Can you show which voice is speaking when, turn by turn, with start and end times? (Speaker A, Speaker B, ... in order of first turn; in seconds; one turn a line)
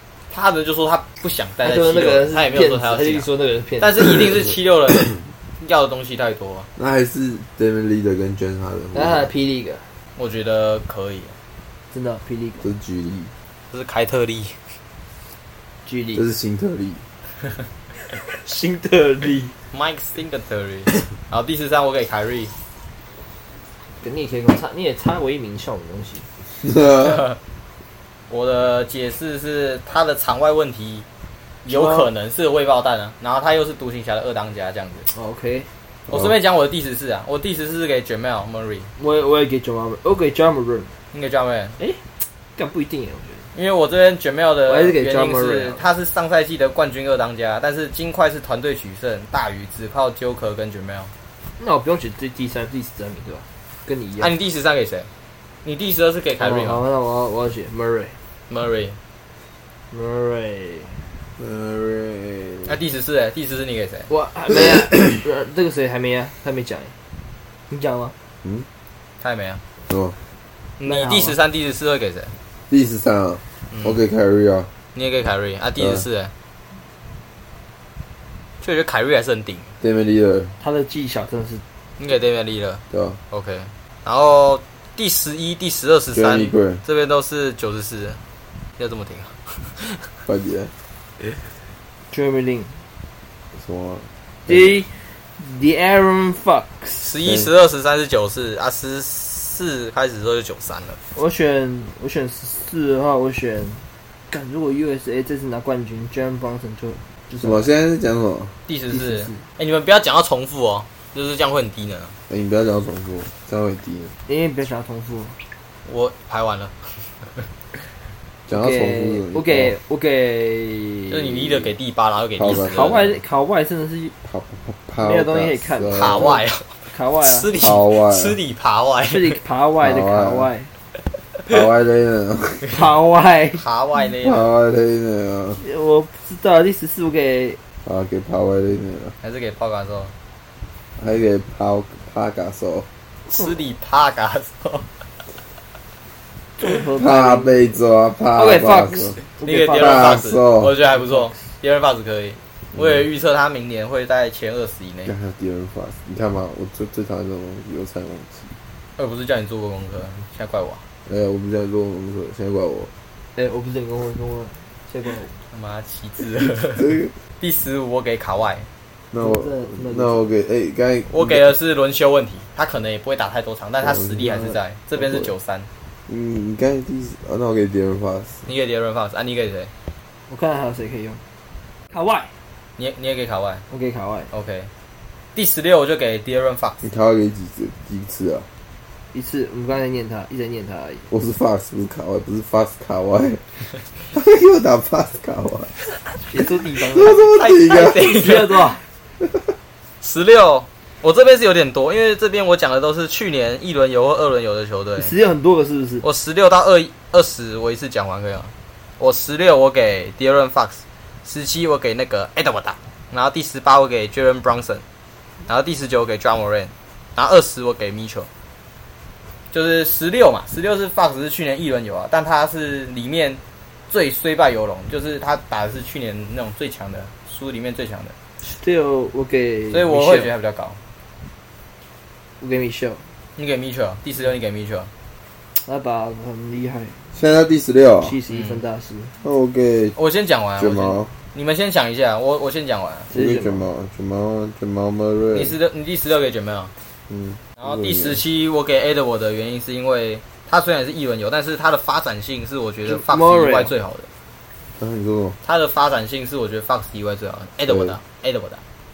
Speaker A: 0.3-3.3
Speaker B: 1.6-4.2
Speaker A: 3.8-6.7
Speaker C: 6.8-9.3
Speaker B: 8.9-9.9
Speaker A: 10.2-11.3
Speaker B: 11.9-12.6
Speaker C: 12.6-13.3
Speaker A: 13.7-14.6
Speaker B: 15.9-16.2
Speaker C: 16.1-17.0
Speaker B: 18.1-19.5
Speaker A: 19.7-22.5
Speaker B: 24.0-26.3
Speaker C: 26.6-27.2
Speaker A: 27.0-27.4
Speaker A: 28.3-31.1
Speaker A: 31.6-35.1
Speaker B: 31.7-32.1
Speaker B: 35.1-35.7
Speaker C: 36.1-36.3
Speaker A: 36.1-38.9
Speaker B: 39.0-40.9
Speaker A: 41.1-41.8
Speaker B: 42.6-43.5
Speaker A: 43.5-51.1
Speaker B: 44.7-45.8
Speaker B: 51.6-54.3
Speaker A: 54.2-55.1
Speaker A: 55.6-56.8
Speaker B: 56.4-58.2
Speaker A: 58.5-59.0
Speaker B: 59.9-61.1
Speaker C: 61.4-62.8
Speaker A: 62.7-64.1
Speaker B: 64.1-66.9
Speaker C: 64.5-65.2
Speaker B: 67.7-68.1
Speaker A: 69.2-69.6
Speaker C: 69.9-70.2
Speaker A: 70.8-72.3
Speaker B: 70.8-71.4
Speaker C: 72.7-74.7
Speaker A: 73.7-74.0
Speaker A: 75.0-76.3
Speaker C: 75.8-76.0
Speaker A: 78.6-79.7
Speaker C: 79.8-80.5
Speaker B: 80.6-81.6
Speaker A: 82.0-88.2
Speaker C: 82.9-83.2
Speaker C: 86.1-86.8
Speaker A: 88.8-90.0
Speaker C: 90.3-90.7
Speaker B: 92.1-92.8
Speaker C: 93.5-94.7
Speaker B: 94.5-97.1
Speaker A: 97.0-101.0
Speaker C: 97.2-97.5
Speaker B: 101.2-107.7
Speaker C: 107.4-108.5
Speaker A: 108.7-112.2
Speaker B: 108.9-109.4
Speaker C: 112.3-114.1
Speaker B: 114.3-115.4
Speaker A: 115.9-117.5
Speaker C: 118.5-119.8
Speaker B: 118.5-121.4
Speaker A: 121.1-123.0
Speaker C: 122.4-123.2
Speaker B: 122.6-124.2
Speaker C: 124.2-126.4
Speaker B: 125.0-126.4
Speaker A: 125.9-129.3
Speaker B: 126.9-127.5
Speaker C: 127.6-128.4
Speaker B: 129.1-130.7
Speaker C: 129.8-130.5
Speaker C: 131.5-132.6
Speaker B: 132.7-133.6
Speaker A: 133.6-134.5
Speaker C: 134.2-135.6
Speaker B: 135.6-137.6
Speaker C: 137.8-139.2
Speaker A: 139.2-140.1
Speaker C: 141.0-142.9
Speaker A: 143.3-144.9
Speaker B: 146.6-147.8
Speaker C: 147.0-149.2
Speaker B: 148.3-150.1
Speaker A: 149.4-155.1
Speaker C: 149.7-150.7
Speaker B: 150.9-151.3
Speaker C: 152.8-153.1
Speaker C: 155.1-158.5
Speaker A: 159.0-160.8
Speaker C: 161.1-162.9
Speaker B: 163.4-165.3
Speaker A: 165.5-168.7
Speaker C: 166.8-167.1
Speaker C: 169.1-171.5
Speaker B: 169.2-170.2
Speaker A: 171.1-175.7
Speaker C: 173.8-175.3
Speaker C: 176.1-178.4
Speaker A: 178.5-179.7
Speaker B: 180.3-181.2
Speaker B: 181.9-182.3
Speaker A: 182.8-183.6
Speaker B: 183.7-184.3
Speaker A: 184.3-184.7
Speaker A: 185.3-186.8
Speaker C: 186.8-188.5
Speaker B: 189.1-191.1
Speaker C: 191.1-193.4
Speaker C: 194.1-195.7
Speaker B: 196.3-198.8
Speaker C: 196.9-198.1
Speaker A: 197.3-198.7
Speaker A: 200.0-205.1
Speaker B: 205.0-206.0
Speaker A: 206.0-214.8
Speaker A: 215.5-218.3
Speaker A: 219.5-228.1
Speaker B: 228.4-230.3
Speaker A: 229.7-230.8
Speaker B: 232.4-233.1
Speaker A: 233.4-234.9
Speaker B: 235.6-237.1
Speaker C: 237.1-238.2
Speaker B: 238.0-239.1
Speaker A: 238.3-238.6
Speaker C: 239.2-240.0
Speaker A: 240.0-243.1
Speaker C: 240.6-241.1
Speaker B: 243.1-243.7
Speaker C: 243.1-245.6
Speaker A: 245.3-246.7
Speaker C: 247.1-248.2
Speaker A: 247.6-254.1
Speaker B: 252.9-253.7
Speaker C: 254.8-255.4
Speaker A: 255.4-258.6
Speaker C: 257.7-258.0